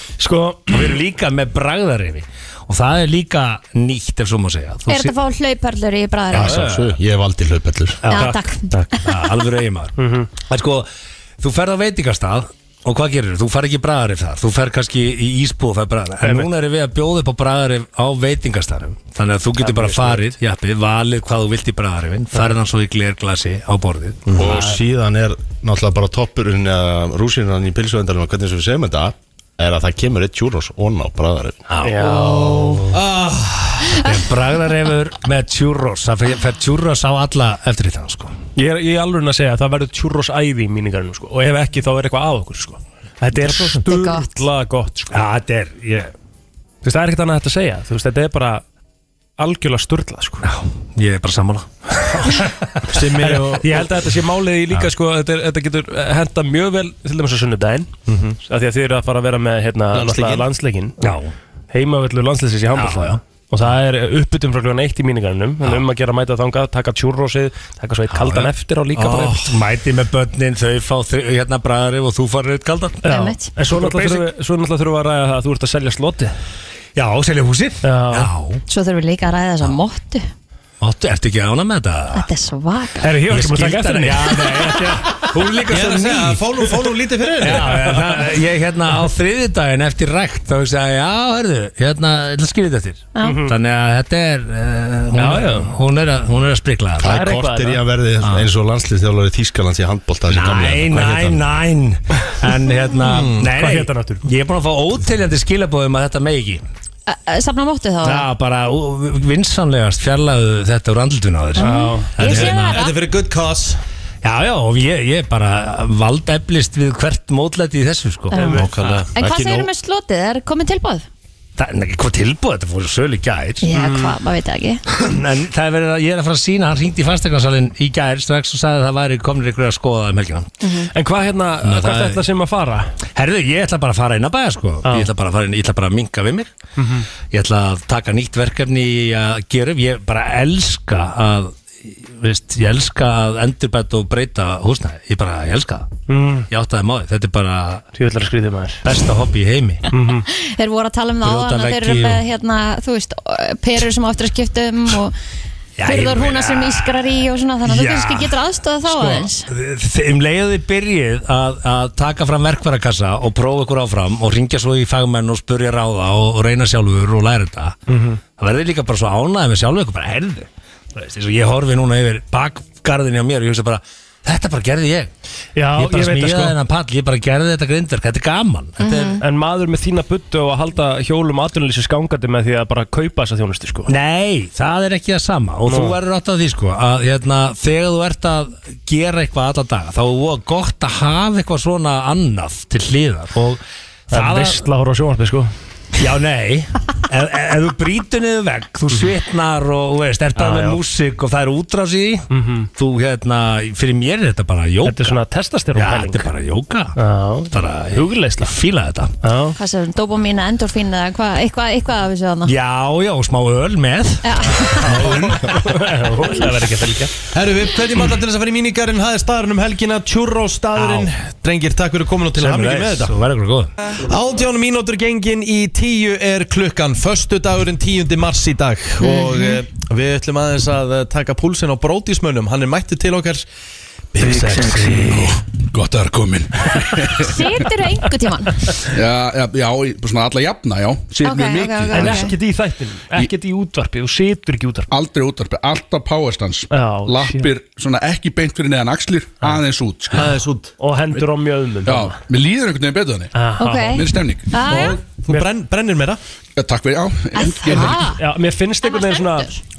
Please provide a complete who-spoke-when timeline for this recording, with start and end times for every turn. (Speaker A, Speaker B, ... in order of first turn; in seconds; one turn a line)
Speaker A: 0.2-1.0
Speaker B: 0.7-5.1
Speaker C: 4.9-6.7
Speaker B: 6.3-6.9
Speaker D: 6.4-8.0
Speaker B: 8.0-10.9
Speaker C: 8.1-9.1
Speaker A: 10.0-10.3
Speaker B: 11.4-24.7
Speaker A: 16.2-16.5
Speaker A: 19.6-20.3
Speaker D: 24.4-31.6
Speaker A: 24.4-24.8
Speaker B: 31.7-33.2
Speaker A: 31.8-32.8
Speaker B: 33.9-38.4
Speaker A: 38.6-45.2
Speaker B: 43.5-43.8
Speaker C: 43.9-44.4
Speaker B: 45.1-46.1
Speaker A: 46.8-48.6
Speaker A: 49.4-50.5
Speaker B: 50.4-52.5
Speaker E: 52.9-53.9
Speaker A: 53.2-57.9
Speaker E: 58.1-58.4
Speaker A: 58.5-61.0
Speaker E: 59.9-60.5
Speaker B: 61.0-61.3
Speaker A: 61.7-69.5
Speaker B: 62.7-63.2
Speaker B: 68.1-73.0
Speaker A: 73.0-76.3
Speaker C: 73.1-73.5
Speaker B: 73.7-74.3
Speaker B: 77.0-78.6
Speaker A: 77.8-78.3
Speaker C: 78.7-80.3
Speaker B: 80.8-82.3
Speaker C: 82.1-83.2
Speaker A: 83.0-85.2
Speaker B: 83.3-86.4
Speaker E: 85.7-87.9
Speaker B: 87.4-97.2
Speaker A: 93.2-93.5
Speaker A: 95.2-95.7
Speaker D: 97.0-101.3
Speaker A: 97.0-98.4
Speaker B: 100.3-106.6
Speaker E: 103.0-103.4
Speaker A: 103.3-104.2
Speaker C: 107.1-108.3
Speaker B: 108.0-112.8
Speaker C: 111.6-113.0
Speaker A: 111.6-112.1
Speaker E: 112.2-113.8
Speaker B: 114.2-118.5
Speaker C: 118.3-121.1
Speaker A: 118.4-119.0
Speaker E: 118.6-119.4
Speaker D: 119.2-119.6
Speaker B: 121.6-123.7
Speaker C: 123.6-124.8
Speaker A: 123.8-124.1
Speaker B: 125.0-130.5
Speaker C: 130.6-130.9
Speaker A: 130.9-132.9
Speaker B: 131.6-132.2
Speaker B: 133.2-136.5
Speaker A: 134.8-135.1
Speaker A: 136.8-137.1
Speaker B: 137.3-146.0
Speaker A: 146.1-146.5
Speaker B: 146.5-147.8
Speaker A: 148.0-148.8
Speaker B: 148.8-149.9
Speaker A: 149.9-150.3
Speaker C: 150.3-155.1
Speaker B: 151.2-152.2
Speaker B: 155.8-157.1
Speaker C: 155.8-159.5
Speaker B: 157.7-158.3
Speaker B: 158.9-167.8
Speaker A: 167.9-168.2
Speaker B: 168.4-175.1
Speaker A: 175.6-176.6
Speaker B: 175.8-179.2
Speaker C: 178.8-179.2
Speaker A: 179.2-183.9
Speaker B: 183.9-194.6
Speaker A: 185.7-186.0
Speaker A: 194.1-195.5
Speaker B: 196.0-205.2
Speaker A: 200.4-200.8
Speaker A: 202.3-202.7
Speaker A: 204.8-206.3
Speaker B: 205.8-207.0
Speaker A: 207.0-208.6
Speaker B: 207.5-209.1
Speaker A: 209.2-209.6
Speaker C: 209.6-212.5
Speaker B: 212.5-215.6
Speaker C: 214.2-214.9
Speaker A: 214.7-217.1
Speaker E: 217.3-223.2
Speaker B: 220.8-221.1
Speaker B: 222.4-223.7
Speaker E: 224.0-233.4
Speaker C: 229.0-229.6
Speaker E: 234.1-235.3
Speaker A: 234.2-235.2
Speaker F: 235.1-237.5
Speaker C: 237.2-238.6
Speaker F: 238.9-242.3
Speaker C: 241.2-242.3
Speaker A: 241.9-244.9
Speaker F: 244.9-250.3
Speaker A: 246.7-247.5
Speaker E: 250.1-250.7
Speaker A: 250.8-252.2
Speaker F: 251.9-253.3
Speaker A: 253.3-254.0
Speaker C: 253.6-255.0
Speaker F: 253.9-254.5
Speaker E: 254.7-256.2
Speaker F: 256.6-258.1
Speaker C: 257.4-258.2
Speaker A: 257.8-259.5
Speaker C: 258.8-259.6